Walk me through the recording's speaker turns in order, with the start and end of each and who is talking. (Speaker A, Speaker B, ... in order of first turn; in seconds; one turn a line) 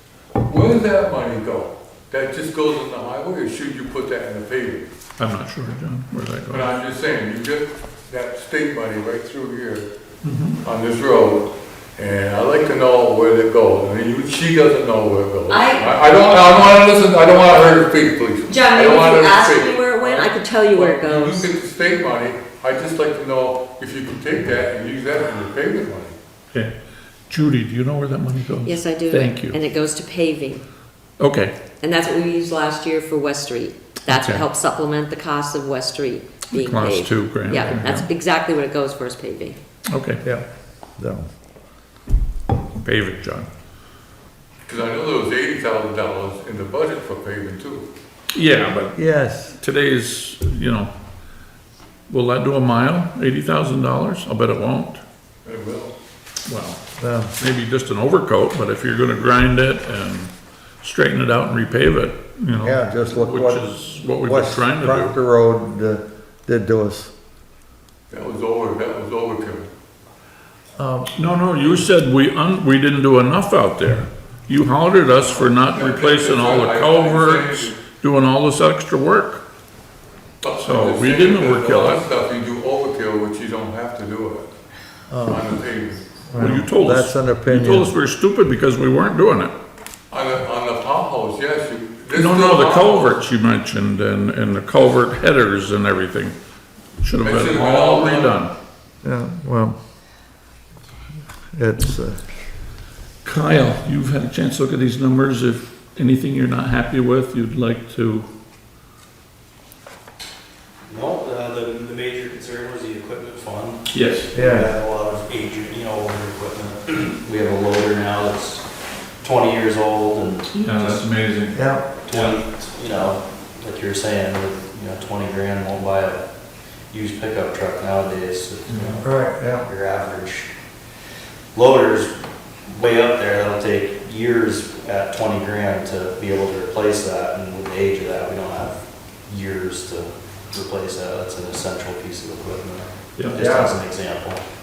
Speaker A: 0.5-4.8
Speaker B: 5.2-6.7
Speaker A: 6.5-9.9
Speaker B: 10.2-10.6
Speaker A: 10.6-26.1
Speaker C: 15.5-15.9
Speaker C: 18.4-21.5
Speaker B: 27.3-29.6
Speaker C: 28.6-30.6
Speaker B: 31.2-31.6
Speaker C: 31.7-39.6
Speaker B: 34.1-34.5
Speaker B: 36.5-38.1
Speaker B: 39.9-40.2
Speaker D: 40.2-41.3
Speaker B: 42.8-43.5
Speaker A: 44.7-47.9
Speaker B: 48.3-50.9
Speaker D: 48.9-49.6
Speaker B: 52.1-55.0
Speaker A: 55.4-55.9
Speaker B: 56.5-56.8
Speaker D: 57.0-57.3
Speaker B: 57.4-65.2
Speaker D: 62.6-67.1
Speaker A: 68.1-69.7
Speaker D: 70.8-71.1
Speaker B: 71.2-79.4
Speaker A: 75.2-77.8
Speaker A: 80.4-84.5
Speaker B: 80.6-82.0
Speaker D: 85.1-85.5
Speaker A: 85.2-86.1
Speaker D: 86.3-87.9
Speaker B: 86.4-89.5
Speaker A: 90.1-93.2
Speaker B: 92.1-96.3
Speaker B: 97.0-98.5
Speaker A: 97.2-98.4
Speaker D: 99.0-99.8
Speaker D: 101.5-102.2
Speaker B: 103.2-108.3
Speaker E: 110.8-118.6
Speaker B: 113.9-114.3
Speaker D: 114.3-114.7
Speaker E: 119.2-121.0
Speaker B: 120.6-122.4
Speaker D: 121.5-121.8
Speaker E: 122.0-126.2
Speaker E: 126.9-130.5
Speaker B: 128.7-129.0
Speaker D: 129.0-129.7
Speaker E: 131.5-132.2
Speaker E: 132.7-144.4
Speaker B: 143.2-143.4
Speaker D: 143.3-143.8